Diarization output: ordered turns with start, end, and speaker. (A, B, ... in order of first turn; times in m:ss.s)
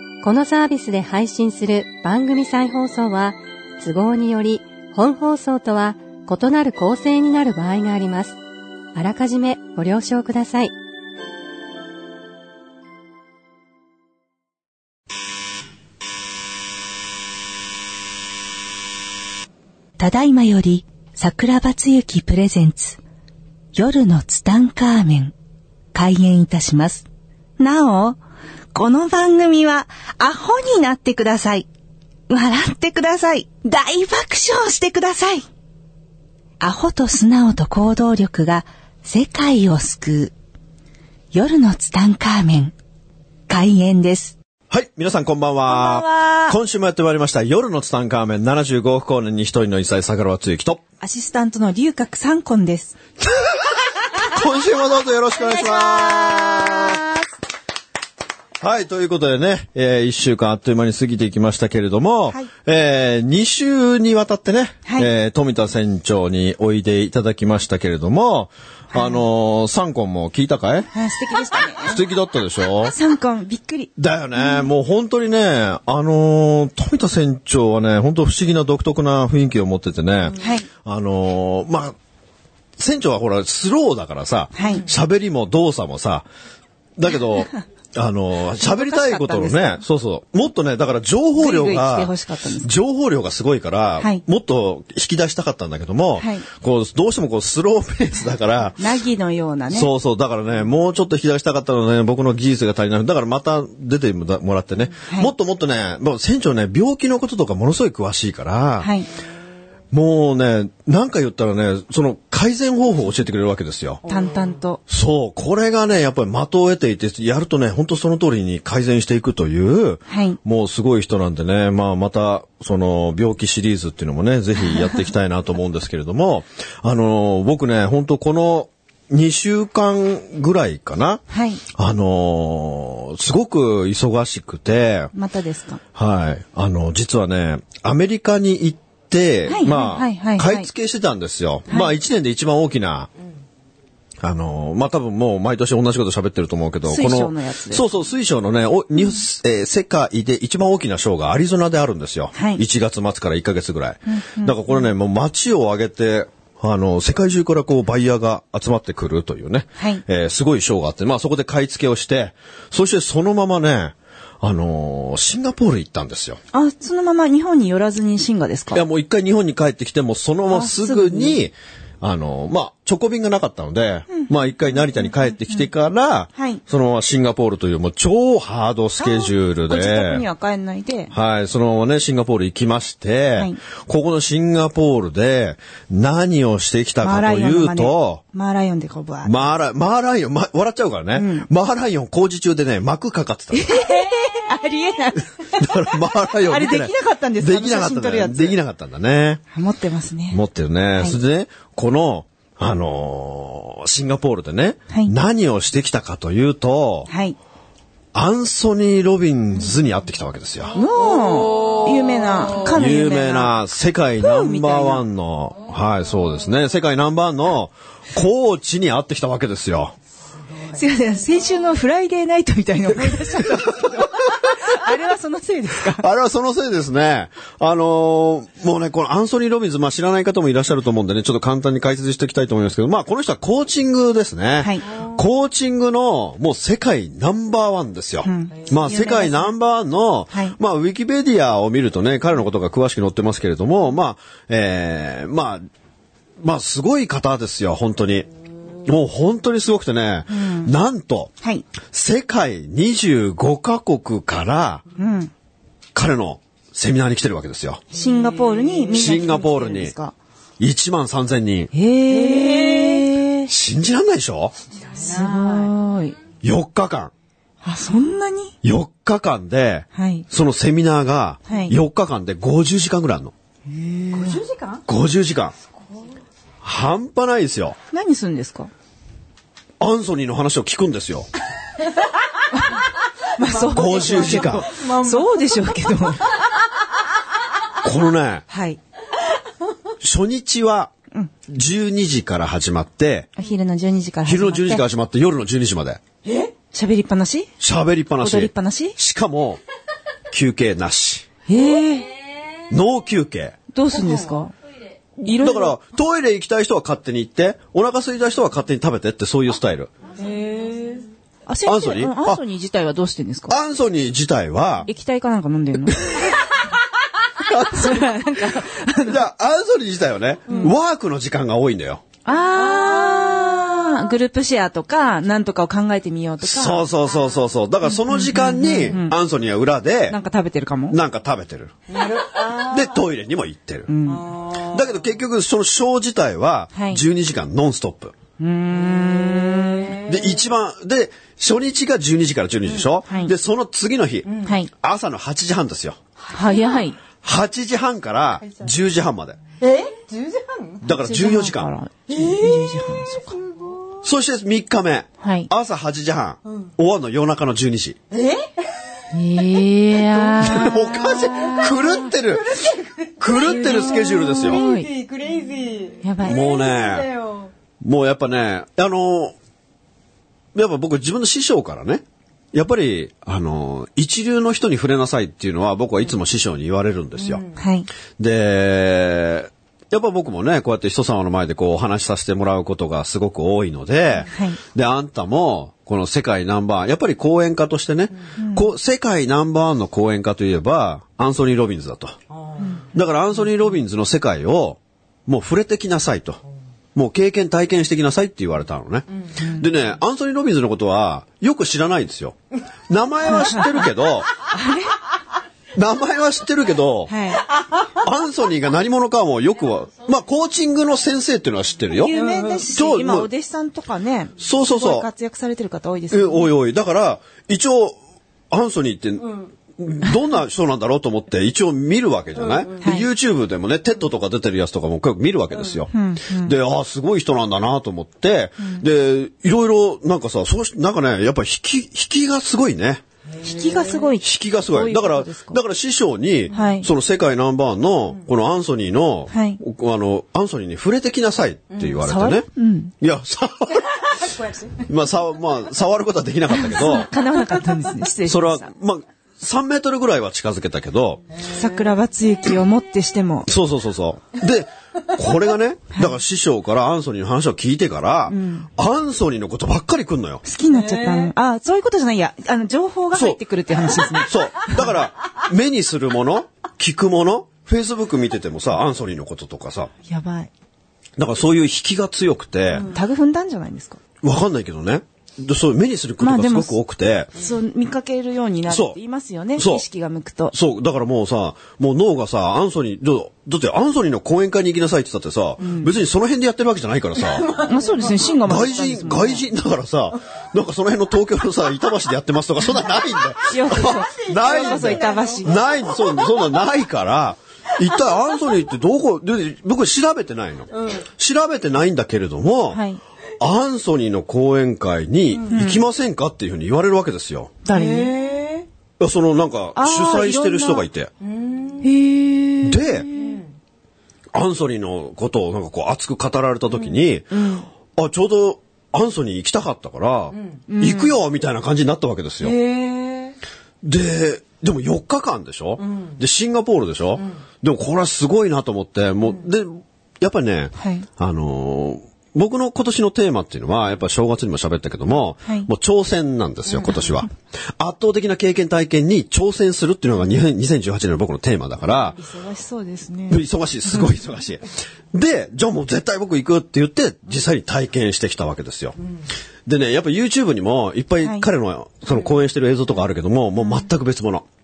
0:00.2-0:08.4 A
0:09.0-0:10.7 A
0:20.0-0:23.0 B
0:23.7-0:25.3 B
0:25.9-0:27.1 B
0:27.6-0:28.2 B
0:28.7-0:31.7 B
0:32.3-0:35.4 B
0:36.6-0:40.3 B
0:41.3-0:42.7 B
0:43.5-0:44.4 B
0:44.7-0:50.8 C
0:45.7-0:46.6 B
0:51.0-0:53.0 B
0:53.2-0:57.0 C
0:55.4-0:57.2 B
0:58.6-1:10.9 C
1:04.8-1:05.1 B
1:08.9-1:09.2 B
1:10.9-1:12.0 B
1:11.8-1:13.0 C
1:12.9-1:14.7 B
1:14.0-1:22.0 C
1:20.4-1:20.7 B
1:22.8-1:26.3 C
1:24.5-1:24.9 B
1:27.0-1:38.8 C
1:28.6-1:29.8 B
1:31.4-1:32.7 B
1:36.2-1:36.5 B
1:38.8-1:39.9 B
1:39.7-1:48.9 C
1:45.0-1:45.3 B
1:48.8-1:49.1 B
1:49.9-1:54.0 C
1:54.1-1:54.8 B
1:54.1-1:54.3 D
1:54.9-2:11.2 C
2:00.1-2:00.4 B
2:04.6-2:05.0 B
2:11.3-2:11.6 B
2:11.7-2:15.1 C
2:15.1-2:15.8 B
2:16.0-2:23.1 C
2:19.5-2:20.7 B
2:21.7-2:21.9 B
2:24.2-2:46.4 C
2:26.9-2:27.8 B
2:32.3-2:32.6 B
2:34.1-2:34.6 B
2:39.8-2:40.0 B
2:46.5-2:48.8 B
2:48.7-3:00.2 C
2:50.5-2:51.4 B
2:56.4-2:56.6 B
2:59.0-3:01.1 B
3:01.1-3:08.2 C
3:07.0-3:09.4 B
3:09.2-3:13.9 C
3:11.1-3:11.5 B
3:13.5-3:15.7 B
3:15.4-3:19.4 C
3:16.4-3:18.6 B
3:19.5-3:20.4 B
3:20.3-3:27.1 C
3:24.9-3:25.2 B
3:27.1-3:27.4 B
3:28.1-3:30.8 C
3:30.7-3:33.6 B
3:32.7-3:40.0 C
3:34.2-3:35.0 B
3:40.4-3:40.8 D
3:40.7-3:46.0 B
3:43.3-3:44.6 C
3:45.8-4:05.6 C
3:58.2-3:59.5 B
4:06.4-4:08.3 C
4:08.8-4:11.3 C
4:10.3-4:10.7 B
4:11.9-4:14.8 C
4:15.0-4:15.3 B
4:16.0-4:17.8 C
4:17.9-4:20.2 B
4:17.9-4:18.9 D
4:18.9-4:19.9 C
4:20.6-4:21.7 C
4:21.7-4:23.5 B
4:22.1-4:23.1 D
4:23.5-4:24.5 C
4:24.7-4:25.7 D
4:25.0-4:26.2 B
4:26.4-4:27.1 C
4:27.6-4:28.5 B
4:28.6-4:33.3 C
4:30.0-4:30.3 B
4:31.5-4:31.8 B
4:33.7-4:34.4 B
4:34.1-4:34.9 D
4:34.9-4:35.5 C
4:36.6-4:37.8 C
4:37.9-4:38.7 B
4:39.8-4:41.3 C
4:43.4-4:46.2 B
4:43.4-4:46.0 D
4:43.7-4:44.7 C
4:47.8-4:48.4 C
4:48.5-4:48.8 B
4:50.0-4:50.9 C
4:51.5-4:53.3 C
4:53.4-4:54.8 B
4:54.2-4:56.0 C
4:56.2-4:56.5 D
4:56.7-4:57.5 B
4:57.6-4:59.6 C
4:58.2-4:59.0 B
5:00.3-5:01.3 C
5:01.5-5:02.1 B
5:02.7-5:03.6 C
5:03.7-5:04.5 B
5:03.9-5:04.3 D
5:05.2-5:09.9 C
5:05.2-5:05.7 B
5:10.2-5:11.1 D
5:11.5-5:13.6 B
5:11.6-5:12.4 C
5:13.5-5:14.9 C
5:14.9-5:16.3 B
5:15.9-5:16.4 C
5:17.4-5:18.3 C
5:17.6-5:19.2 B
5:19.0-5:22.0 C
5:20.5-5:20.8 B
5:22.2-5:26.9 B
5:22.5-5:24.0 D
5:26.4-5:30.2 C
5:27.9-5:29.2 B
5:30.1-5:31.0 B
5:30.9-5:33.9 C
5:31.9-5:33.0 D
5:33.9-5:34.3 B
5:34.1-5:35.1 D
5:34.6-5:38.1 C
5:36.7-5:37.0 B
5:38.4-5:40.0 B
5:38.7-5:40.4 D
5:40.0-5:46.0 C
5:43.1-5:43.3 B
5:44.2-5:44.6 D
5:44.4-5:44.7 B
5:46.2-5:46.8 D
5:46.3-5:47.0 B
5:47.2-5:49.4 C
5:49.6-5:50.9 D
5:50.8-5:51.7 C
5:50.9-5:53.4 B
5:52.1-5:54.1 D
5:54.0-5:58.0 C
5:55.2-5:55.5 B
5:56.5-5:56.7 D
5:58.1-5:58.9 D
5:59.1-6:02.0 B
5:59.9-6:07.5 D
6:00.4-6:02.6 C
6:03.2-6:04.6 C
6:03.3-6:04.9 B
6:06.0-6:06.4 B
6:06.2-6:07.1 C
6:07.8-6:09.4 C
6:10.6-6:17.4 C
6:17.2-6:17.6 D
6:17.6-6:17.9 B
6:18.2-6:32.2 C
6:24.3-6:24.6 B
6:28.4-6:28.7 B
6:32.3-6:32.8 D
6:32.9-6:36.4 C
6:37.0-6:42.4 C
6:39.4-6:39.7 B
6:42.9-6:44.3 C
6:43.2-6:43.9 B
6:44.5-6:45.0 B
6:45.8-6:47.1 C
6:47.1-6:47.5 B
6:47.6-6:47.9 D
6:48.0-6:52.2 C
6:51.9-6:56.5 B
6:52.1-6:52.7 D
6:52.7-6:53.3 C
6:54.4-6:55.1 C
6:56.1-6:58.0 C
6:58.5-7:13.0 C
7:02.4-7:02.9 D
7:02.8-7:03.1 B
7:05.9-7:06.5 B
7:13.3-7:14.1 D
7:13.4-7:15.6 B
7:14.2-7:22.5 C
7:16.5-7:16.9 B
7:19.3-7:19.6 B
7:21.7-7:22.1 D
7:22.0-7:22.9 B
7:23.0-7:24.2 C
7:24.1-7:24.8 D
7:24.8-7:27.1 C
7:26.5-7:28.7 B
7:27.4-7:27.9 D
7:28.2-7:31.2 C
7:31.3-7:32.0 D
7:31.5-7:33.5 B
7:33.5-7:40.4 C
7:38.3-7:38.7 B
7:40.4-7:44.8 B
7:40.7-7:41.3 D
7:43.1-7:43.4 C
7:44.1-7:49.9 C
7:50.1-7:50.5 B
7:51.2-7:52.9 C
7:52.9-7:54.0 B
7:54.2-7:57.3 C
7:56.2-7:56.8 B
7:57.4-8:00.5 B
7:58.7-7:59.0 C
7:59.6-7:59.8 C
8:00.5-8:07.6 C
8:05.6-8:05.9 B
8:07.3-8:08.4 D
8:07.6-8:09.4 B
8:08.4-8:22.8 C
8:13.5-8:15.6 B
8:13.7-8:16.5 D
8:17.8-8:18.5 D
8:20.7-8:21.0 D
8:22.7-8:23.0 B
8:23.4-8:27.6 C
8:25.5-8:25.8 B
8:27.6-8:28.1 B
8:27.7-8:28.7 D
8:29.0-8:31.1 C
8:29.8-8:30.9 B
8:31.2-8:31.9 D
8:31.8-8:33.4 B
8:32.6-8:33.1 C
8:33.1-8:33.5 D
8:34.3-8:37.3 C
8:37.3-8:37.7 B
8:38.0-8:42.6 C
8:40.3-8:40.6 D
8:40.7-8:41.2 B
8:42.4-8:43.4 D
8:43.8-9:02.2 C
8:45.8-8:46.2 D
8:47.2-8:47.4 D
8:50.8-8:51.1 B
8:55.4-8:55.7 B
8:56.7-8:57.0 D
9:02.2-9:03.4 B
9:03.3-9:09.0 C
9:09.0-9:09.3 D
9:09.7-9:14.5 C
9:11.2-9:11.5 B